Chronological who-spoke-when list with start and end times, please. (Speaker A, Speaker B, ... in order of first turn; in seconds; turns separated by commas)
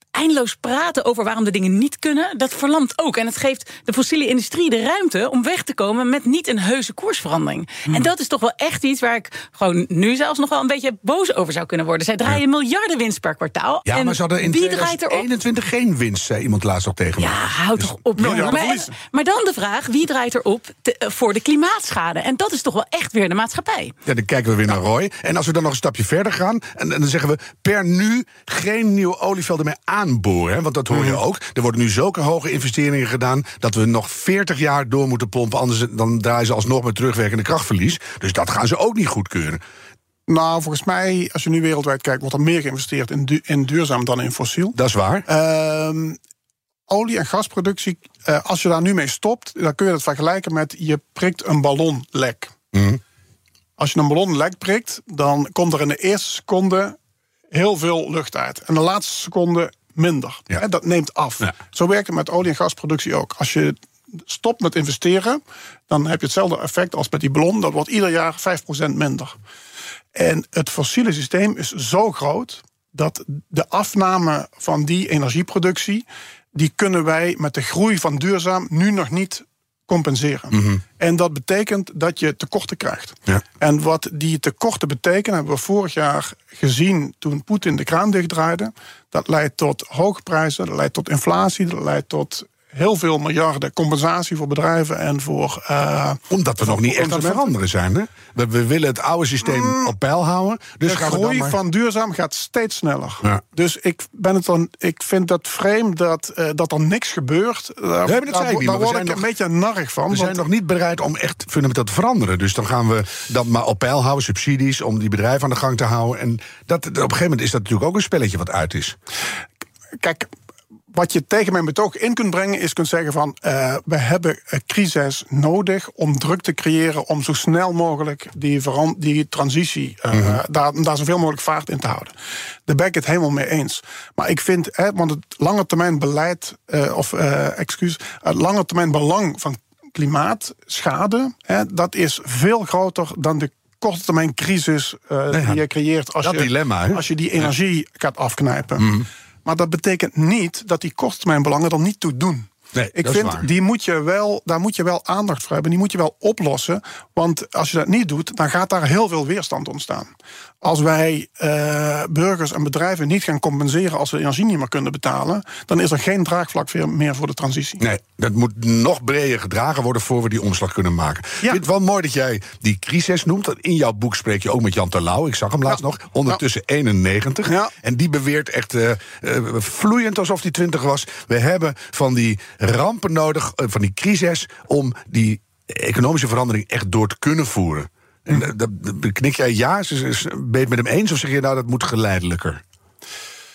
Speaker A: 0.1-15.3, Speaker B: 13.8-18.0, Speaker A: 17.2-23.9, Speaker C: 18.2-18.9, Speaker B: 24.1-39.6, Speaker C: 30.9-31.2, Speaker C: 40.3-46.2, Speaker B: 44.8-45.2, Speaker C: 46.9-52.5, Speaker B: 52.7-53.0, Speaker C: 53.8-57.0, Speaker C: 57.5-69.3, Speaker C: 70.1-97.5, Speaker B: 80.5-80.8, Speaker B: 96.3-101.6, Speaker C: 99.5-99.9, Speaker C: 100.8-110.4, Speaker B: 108.0-109.2, Speaker B: 110.1-119.0, Speaker C: 120.0-120.3, Speaker C: 120.9-132.1, Speaker C: 132.7-148.9, Speaker B: 145.3-145.6, Speaker B: 146.2-147.5, Speaker B: 148.8-149.1, Speaker C: 149.4-160.1, Speaker B: 152.7-153.4, Speaker C: 160.6-167.8, Speaker B: 167.8-192.6, Speaker C: 175.7-176.4, Speaker C: 177.5-177.7